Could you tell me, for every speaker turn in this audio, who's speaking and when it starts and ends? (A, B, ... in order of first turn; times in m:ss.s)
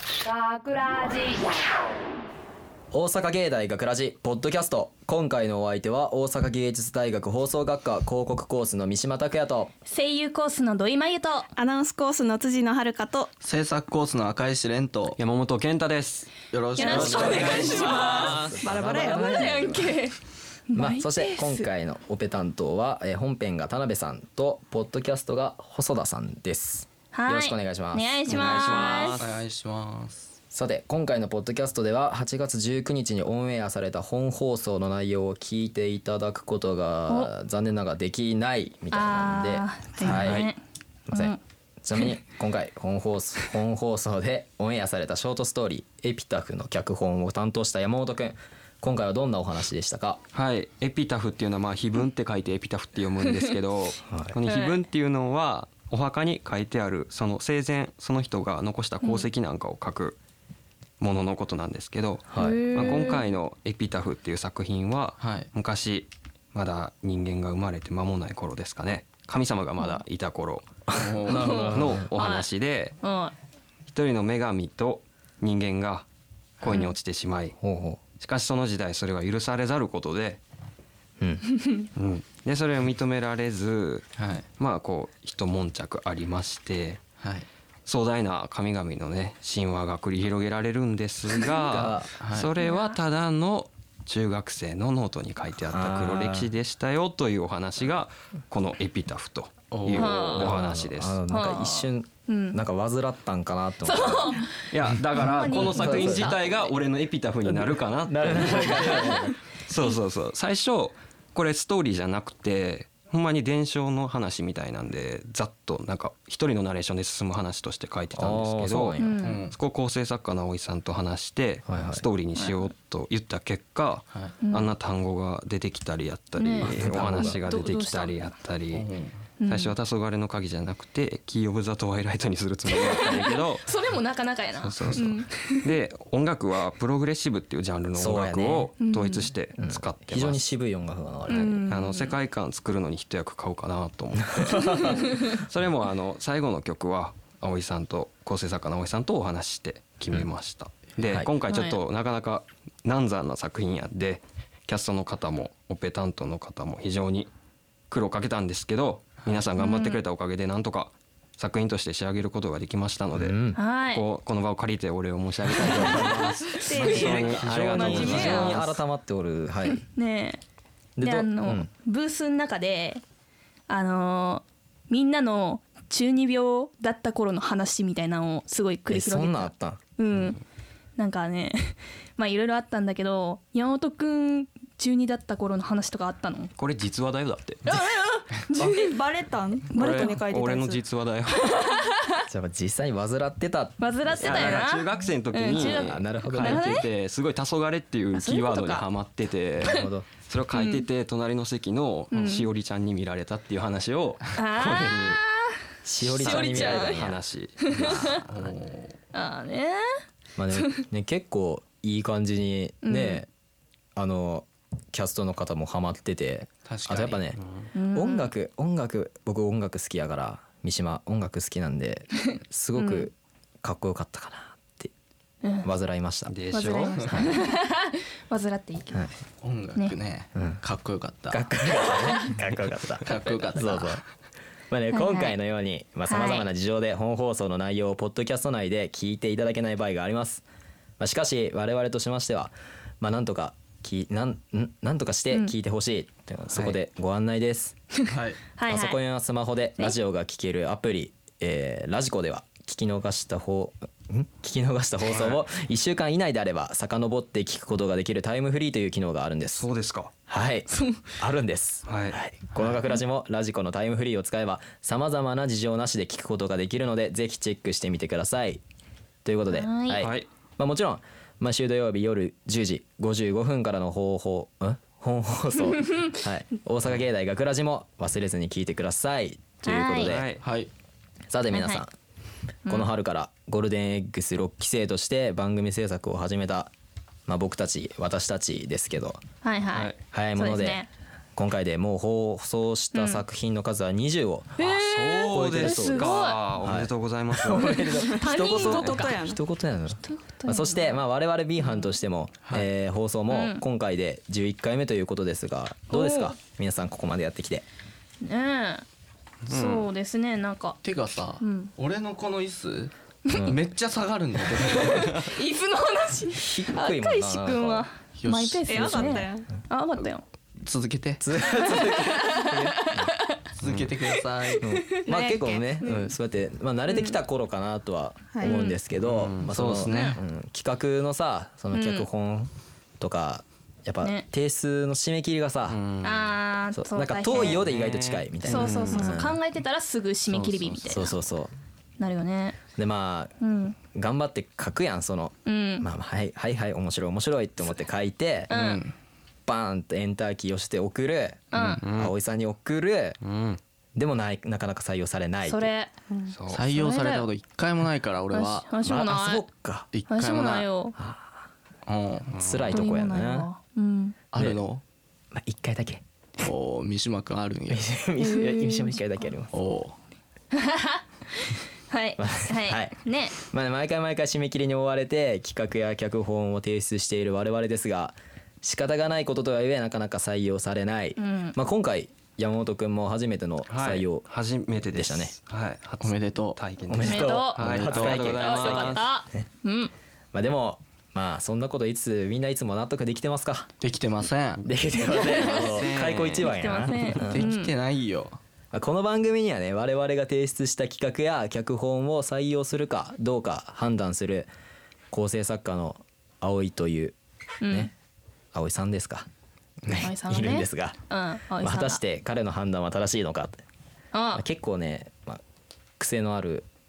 0:02.9-0:09.7 A
0:09.8-0:11.5 B
0:11.6-0:13.3 C
0:13.4-0:15.2 D
0:15.2-0:18.9 E
0:16.5-0:18.0 D
0:16.8-0:20.2 B
0:18.1-0:19.5 C
0:18.2-0:19.9 A
0:20.7-0:21.6 B
0:20.7-0:28.4 A
0:27.1-0:29.2 B
0:28.3-0:29.3 E
0:28.4-0:30.3 D
0:30.5-0:40.5 A
0:38.9-0:40.6 B
0:40.0-0:40.4 D
0:41.1-0:50.2 A
0:41.1-0:41.4 B
0:50.3-1:00.2 E
0:54.1-0:54.4 A
0:54.4-0:54.8 B
1:01.0-1:10.7 E
1:02.3-1:03.1 A
1:02.4-1:03.2 B
1:05.2-1:05.5 D
1:10.9-1:11.8 D
1:10.9-1:12.1 A
1:11.3-1:13.0 E
1:11.3-1:12.5 B
1:13.0-1:13.3 B
1:13.9-1:16.0 E
1:16.6-1:17.6 E
1:17.6-1:18.0 A
1:18.2-1:20.4 E
1:22.0-1:27.0 E
1:24.2-1:24.4 D
1:27.2-1:27.4 D
1:27.8-1:41.2 E
1:31.7-1:32.1 A
1:32.2-1:32.5 D
1:32.6-1:33.0 B
1:35.6-1:36.5 A
1:39.7-1:40.3 D
1:39.9-1:40.5 B
1:40.1-1:44.4 A
1:41.3-1:42.6 B
1:43.8-1:44.5 B
1:44.7-2:08.9 E
1:45.1-1:46.7 B
1:45.3-1:46.4 A
1:47.4-1:49.3 A
1:48.6-1:49.2 B
1:58.1-1:59.2 A
1:59.0-1:59.4 B
1:59.2-1:59.6 D
2:01.7-2:02.0 A
2:04.4-2:04.7 B
2:06.4-2:08.3 B
2:06.6-2:07.4 A
2:08.7-2:09.2 D
2:09.4-2:09.7 B
2:09.4-2:13.7 E
2:12.7-2:15.6 B
2:14.6-2:20.4 E
2:17.9-2:18.7 A
2:18.8-2:19.3 B
2:19.6-2:21.6 A
2:21.3-2:22.2 B
2:21.6-2:37.3 E
2:24.3-2:25.0 A
2:24.8-2:25.0 B
2:31.0-2:31.3 A
2:31.5-2:31.8 B
2:37.9-2:48.7 E
2:39.6-2:40.0 B
2:43.1-2:43.6 A
2:43.6-2:44.0 B
2:45.6-2:46.1 A
2:45.7-2:48.6 B
2:46.6-2:48.5 C
2:47.4-2:49.8 A
2:49.8-2:50.4 B
2:51.0-2:51.7 A
2:51.0-2:53.0 B
2:53.7-3:00.4 B
2:58.9-2:59.8 A
3:01.0-3:06.5 B
3:06.6-3:07.6 E
3:07.6-3:08.9 B
3:08.6-3:10.8 C
3:09.7-3:11.6 E
3:11.6-3:12.0 B
3:12.3-3:14.7 A
3:13.8-3:16.8 B
3:14.2-3:25.2 E
3:15.5-3:16.8 A
3:18.1-3:18.8 B
3:19.6-3:20.1 A
3:20.5-3:20.8 B
3:22.1-3:22.4 B
3:24.4-3:25.5 B
3:25.8-3:27.2 A
3:26.0-3:28.2 E
3:26.1-3:27.0 B
3:27.7-3:28.1 B
3:27.8-3:28.9 D
3:29.1-3:29.8 B
3:30.4-3:33.3 A
3:32.8-3:33.2 B
3:34.0-3:37.4 A
3:36.6-3:37.2 D
3:37.7-3:38.3 B
3:37.9-3:44.9 A
3:42.8-3:43.1 B
3:45.6-3:47.4 A
3:46.3-3:46.9 E
3:46.5-3:49.0 B
3:49.4-3:51.4 D
3:50.3-3:50.6 A
3:51.3-3:54.0 A
3:53.0-3:54.0 D
3:54.7-4:00.4 A
3:54.9-3:55.3 B
3:56.1-3:56.5 B
4:01.0-4:07.8 A
4:08.1-4:08.4 D
4:08.5-4:09.0 B
4:08.7-4:19.7 A
4:19.5-4:20.1 E
4:20.3-4:28.6 A
4:21.9-4:22.7 E
4:29.2-4:40.3 A
4:29.5-4:30.0 B
4:30.0-4:30.2 E
4:39.6-4:40.1 B
4:40.0-4:40.4 E
4:40.4-4:40.7 D
4:41.3-4:41.9 A
4:41.5-4:41.8 B
4:42.7-4:46.7 A
4:47.3-4:49.2 A
4:49.4-4:50.9 B
4:50.1-4:54.7 A
4:52.9-4:53.2 B
4:54.6-4:56.4 B
4:54.7-4:57.8 E
4:55.3-5:07.6 A
4:57.7-4:59.2 B
4:58.1-4:59.4 C
5:00.0-5:00.9 B
5:03.3-5:03.6 B
5:05.9-5:06.4 B
5:08.2-5:08.8 B
5:09.5-5:10.8 B
5:10.8-5:15.2 D
5:11.4-5:11.7 B
5:14.7-5:20.2 B
5:16.3-5:17.9 A
5:18.2-5:19.0 D
5:18.6-5:19.5 C
5:20.6-5:21.2 D
5:21.2-5:23.1 A
5:21.7-5:23.4 B
5:23.6-5:24.6 D
5:23.6-5:23.9 E
5:24.6-5:35.8 A
5:25.0-5:26.0 C
5:28.3-5:28.6 C
5:28.4-5:28.8 B
5:29.0-5:30.2 E
5:29.5-5:30.2 D
5:31.7-5:32.1 B
5:35.7-5:36.4 E
5:36.0-5:37.6 B
5:36.7-5:39.4 A
5:37.3-5:39.0 E
5:38.5-5:41.2 B
5:40.3-5:40.6 D
5:40.9-5:41.5 A
5:42.0-5:42.6 B
5:42.8-5:48.6 A
5:43.4-5:43.7 B
5:45.4-5:45.8 B
5:48.5-5:48.8 B
5:48.5-5:48.9 D
5:49.4-5:53.2 A
5:51.5-5:51.8 B
5:51.8-5:52.1 E
5:53.2-5:53.6 E
5:54.0-5:55.7 A
5:55.5-5:56.0 B
5:56.3-5:56.6 E
5:56.5-5:58.7 D
5:56.7-5:57.3 B
5:58.3-5:59.4 B
5:58.8-5:59.9 A
5:59.9-6:00.7 D
6:00.1-6:00.9 B
6:01.0-6:01.2 A
6:01.8-6:02.3 D
6:02.3-6:02.7 E
6:02.3-6:03.5 A
6:02.7-6:04.2 B
6:04.3-6:04.8 D
6:04.3-6:04.6 A
6:05.3-6:06.0 A
6:06.4-6:07.9 D
6:07.7-6:09.5 A
6:08.2-6:08.9 B
6:09.5-6:09.9 D
6:10.5-6:13.3 B
6:12.2-6:24.3 A
6:21.2-6:21.6 B
6:23.7-6:29.1 E
6:24.9-6:25.3 A
6:26.0-6:26.6 D
6:26.9-6:29.4 A
6:27.0-6:27.6 B
6:27.6-6:28.3 D
6:28.1-6:29.9 B
6:30.3-6:33.7 A
6:33.8-6:34.6 D
6:34.6-6:37.5 A
6:35.1-6:35.8 B
6:35.1-6:36.5 E
6:36.4-6:37.7 B
6:37.1-6:38.4 D
6:38.7-6:44.5 A
6:45.1-6:47.2 A
6:47.6-6:47.9 B
6:47.7-6:47.9 A
6:48.5-6:49.3 A
6:49.8-6:51.0 A
6:49.9-6:52.0 B
6:51.6-6:53.6 A
6:54.1-6:54.4 B
6:54.3-6:55.4 A
6:56.0-6:56.6 A